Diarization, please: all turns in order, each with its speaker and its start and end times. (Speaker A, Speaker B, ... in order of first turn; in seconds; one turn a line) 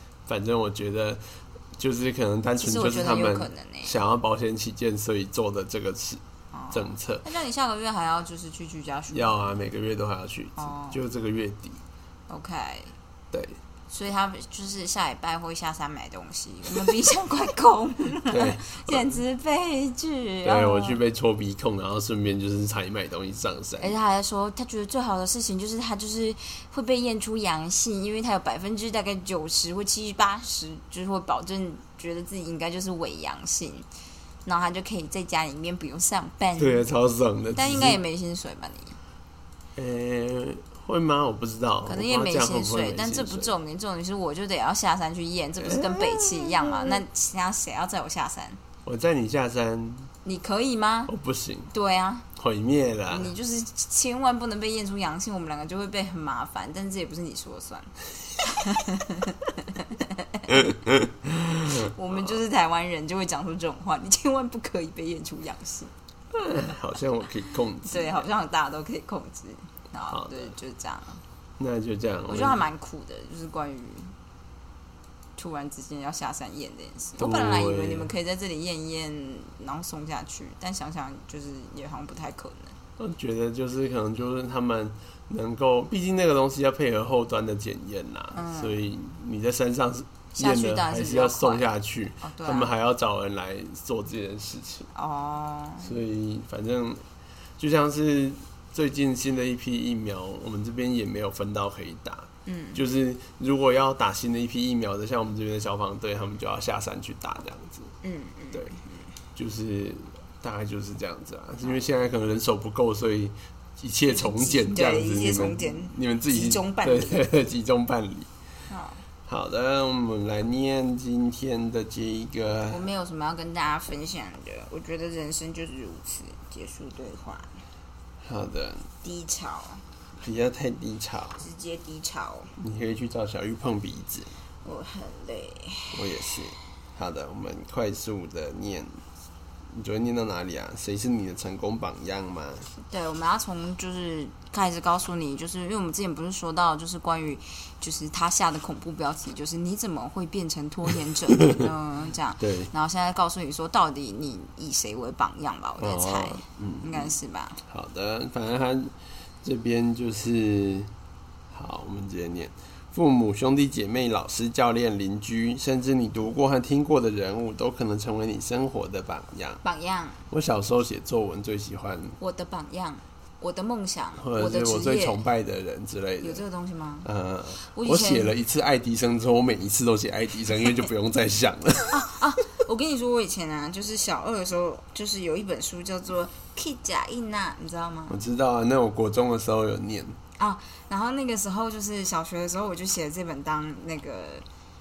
Speaker A: 0.3-1.2
Speaker A: 1.8-7.2
Speaker B: 2.6-4.0
Speaker B: 6.5-9.4
Speaker A: 9.1-11.8
Speaker B: 10.6-11.0
Speaker B: 12.3-12.9
Speaker A: 13.3-13.6
Speaker B: 13.9-21.0
Speaker A: 18.3-19.0
Speaker A: 20.4-23.9
Speaker B: 23.8-33.9
Speaker B: 34.4-36.8
Speaker A: 36.5-38.0
Speaker B: 37.5-39.0
Speaker A: 39.8-43.5
Speaker B: 41.9-48.6
Speaker A: 45.6-47.0
Speaker A: 48.8-50.1
Speaker B: 50.2-51.1
Speaker A: 51.1-51.7
Speaker B: 51.7-52.3
Speaker A: 52.4-53.3
Speaker B: 53.1-60.7
Speaker A: 60.5-61.9
Speaker B: 61.6-65.9
Speaker A: 66.3-68.2
Speaker B: 67.8-71.2
Speaker A: 70.1-70.5
Speaker A: 71.6-72.6
Speaker B: 72.3-74.1
Speaker B: 75.4-82.8
Speaker A: 77.2-78.1
Speaker A: 83.0-94.9
Speaker B: 88.3-88.8
Speaker B: 90.4-91.7
Speaker B: 92.2-92.7
Speaker B: 94.9-95.9
Speaker A: 95.8-97.0
Speaker A: 97.6-107.9
Speaker B: 102.5-102.8
Speaker B: 108.0-109.0
Speaker A: 109.3-118.3
Speaker B: 114.1-117.2
Speaker B: 118.7-119.0
Speaker A: 119.3-122.8
Speaker B: 122.7-127.5
Speaker A: 128.2-128.9
Speaker B: 129.0-129.8
Speaker A: 130.2-131.4
Speaker B: 131.4-132.5
Speaker A: 132.6-134.3
Speaker B: 134.6-136.0
Speaker A: 135.9-138.9
Speaker A: 139.7-142.7
Speaker B: 142.9-157.6
Speaker A: 152.4-152.7
Speaker A: 155.8-157.1
Speaker A: 157.7-160.9
Speaker A: 161.5-169.6
Speaker B: 169.6-170.3
Speaker A: 170.3-172.2
Speaker B: 172.2-175.2
Speaker A: 174.2-176.4
Speaker B: 176.2-177.1
Speaker A: 177.0-181.9
Speaker B: 177.7-178.3
Speaker B: 181.9-188.2
Speaker A: 188.1-190.2
Speaker B: 190.4-194.4